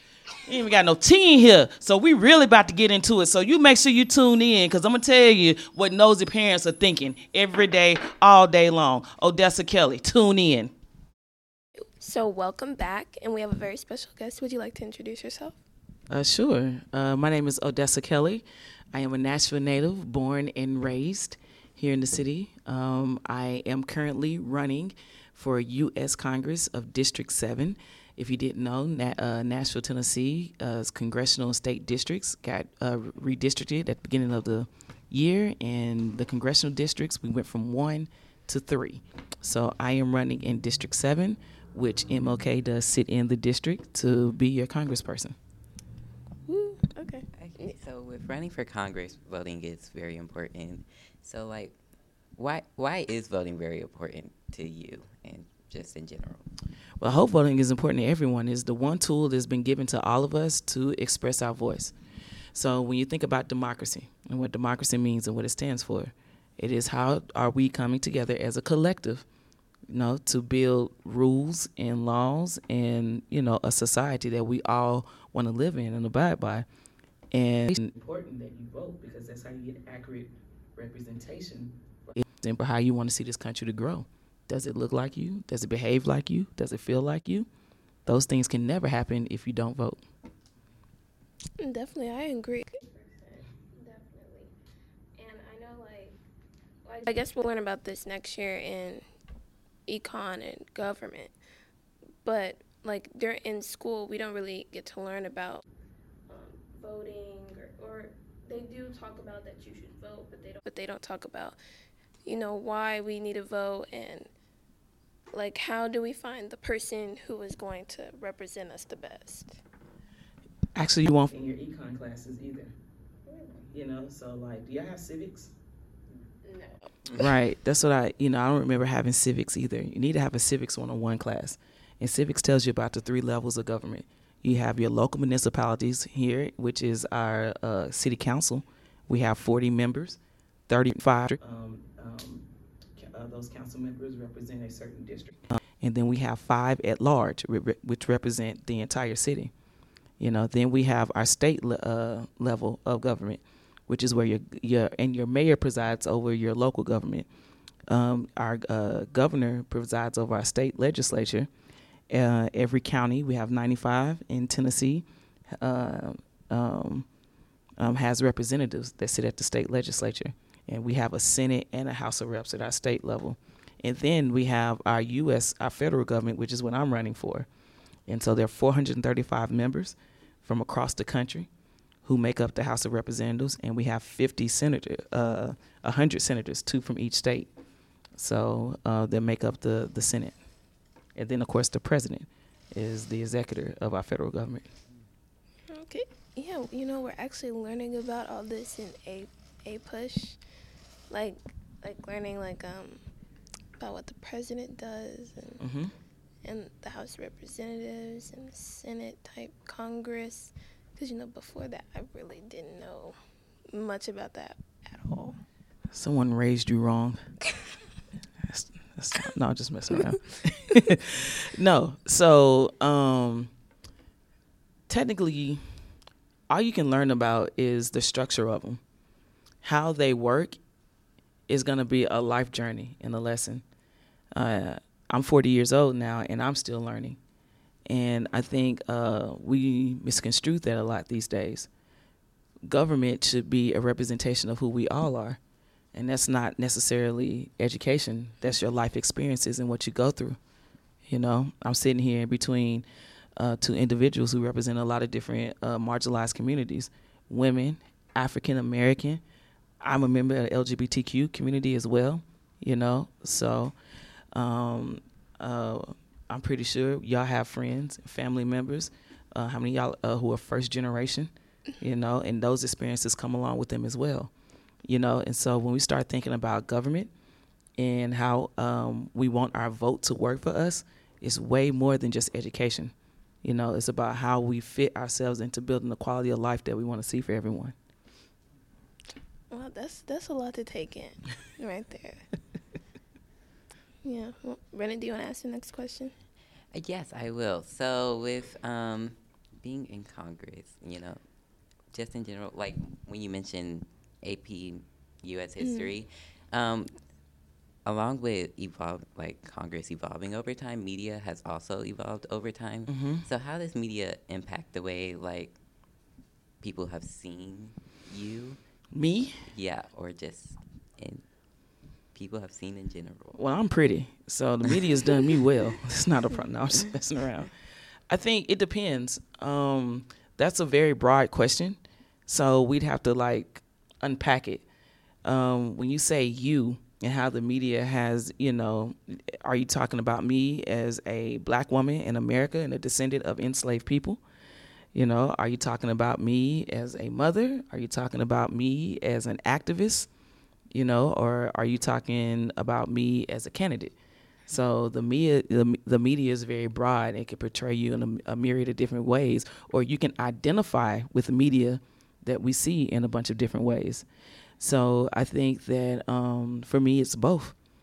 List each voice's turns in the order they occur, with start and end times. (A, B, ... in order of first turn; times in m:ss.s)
0:00.4-0:10.7 A
0:12.0-0:15.6 B
0:16.1-0:45.4 A
0:46.4-0:47.8 B
0:47.4-0:51.8 C
0:52.4-0:56.5 C
0:57.0-1:01.9 A
1:02.5-1:09.2 A
1:09.9-1:16.6 A
1:17.3-1:27.5 A
1:28.0-1:30.0 A
1:31.6-1:34.5 B
1:35.2-1:36.2 B
1:36.8-1:39.0 B
1:39.9-1:41.3 B
1:42.2-1:45.6 B
1:46.3-1:51.6 B
1:52.2-1:54.3 B
1:55.3-1:59.6 B
2:00.8-2:02.7 A
2:03.3-2:03.6 B
2:03.7-2:05.5 A
2:06.4-2:06.9 B
2:07.1-2:29.5 A
2:30.2-2:37.2 A
2:37.9-2:41.5 A
2:42.1-2:47.1 A
2:47.8-2:57.5 A
2:58.1-3:01.5 A
3:02.0-3:07.5 A
3:08.2-3:10.4 A
3:11.2-3:14.7 A
3:15.7-3:20.4 B
3:21.1-3:23.0 B
3:23.8-3:25.6 B
3:25.6-3:25.9 A
3:26.4-3:33.2 B
3:33.7-3:35.4 B
3:35.9-3:37.2 A
3:38.4-3:43.5 A
3:44.9-3:45.6 A
3:46.5-3:48.8 A
3:49.6-3:50.6 A
3:51.5-3:53.6 A
3:54.3-3:57.2 A
3:57.9-4:01.7 A
4:02.6-4:05.4 A
4:05.9-4:10.4 A
4:11.1-4:12.8 A
4:13.4-4:19.2 A
4:19.8-4:23.7 A
4:24.3-4:34.3 A
4:34.8-4:37.1 A
4:37.8-4:47.7 A
4:49.5-4:52.3 B
4:54.0-4:56.1 B
4:56.7-5:01.2 C
5:01.9-5:06.9 C
5:05.6-5:05.9 B
5:07.8-5:15.6 C
5:12.9-5:13.2 A
5:16.6-5:18.6 C
5:18.9-5:19.4 A
5:19.5-5:21.2 C
5:22.1-5:23.4 C
5:23.3-5:27.5 A
5:28.1-5:34.6 A
5:35.2-5:44.2 A
5:44.9-5:50.1 A
5:50.7-5:53.9 A
5:54.5-6:04.0 A
6:04.6-6:07.5 A